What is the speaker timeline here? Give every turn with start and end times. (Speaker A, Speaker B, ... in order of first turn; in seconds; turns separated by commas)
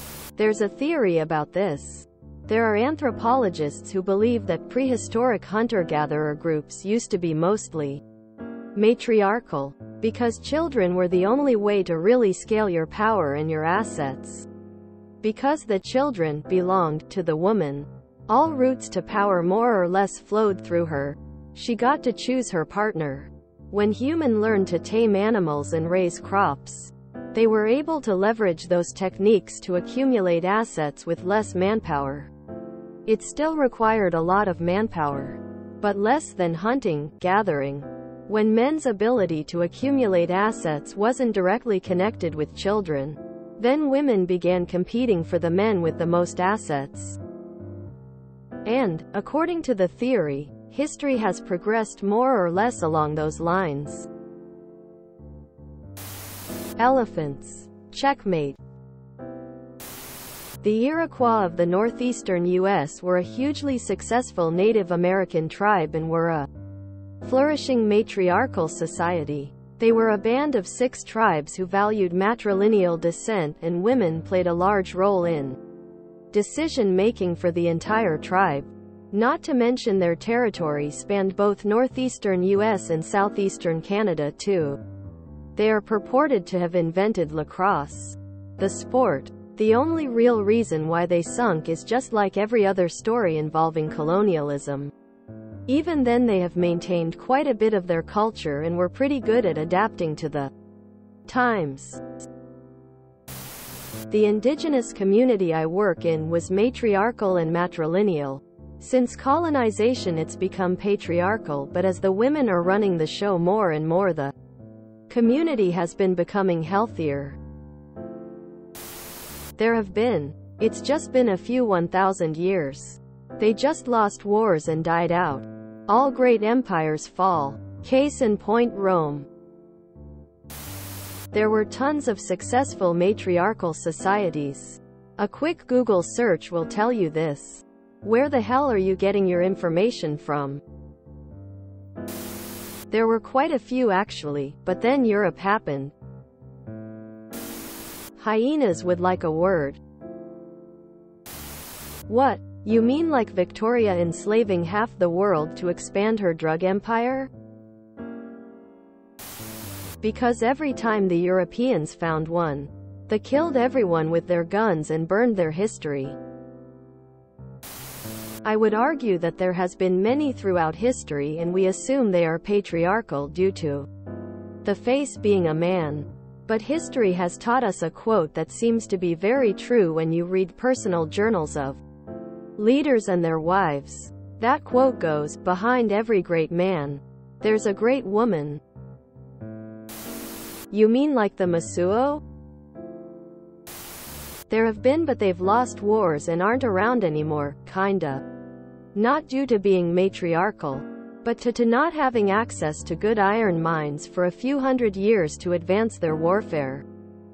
Speaker A: 0.3-8.0, Speaker A: 8.7-14.5, Speaker A: 15.2-32.3, Speaker A: 33.0-47.2, Speaker A: 48.6-54.1, Speaker A: 56.8-58.6, Speaker A: 60.6-66.5, Speaker A: 67.2-75.6, Speaker A: 76.3-84.8, Speaker A: 85.5-94.9, Speaker A: 95.7-100.5, Speaker A: 101.3-102.0, Speaker A: 104.1-114.3, Speaker A: 115.1-117.4, Speaker A: 119.6-129.3, Speaker A: 131.3-140.6, Speaker A: 142.9-145.9, Speaker A: 148.2-149.8, Speaker A: 152.1-157.3, Speaker A: 160.0-166.2, Speaker A: 168.4-173.9, Speaker A: 174.6-181.8, Speaker A: 182.6-188.6, Speaker A: 190.7-192.2, Speaker A: 194.5-198.2, Speaker A: 198.9-206.8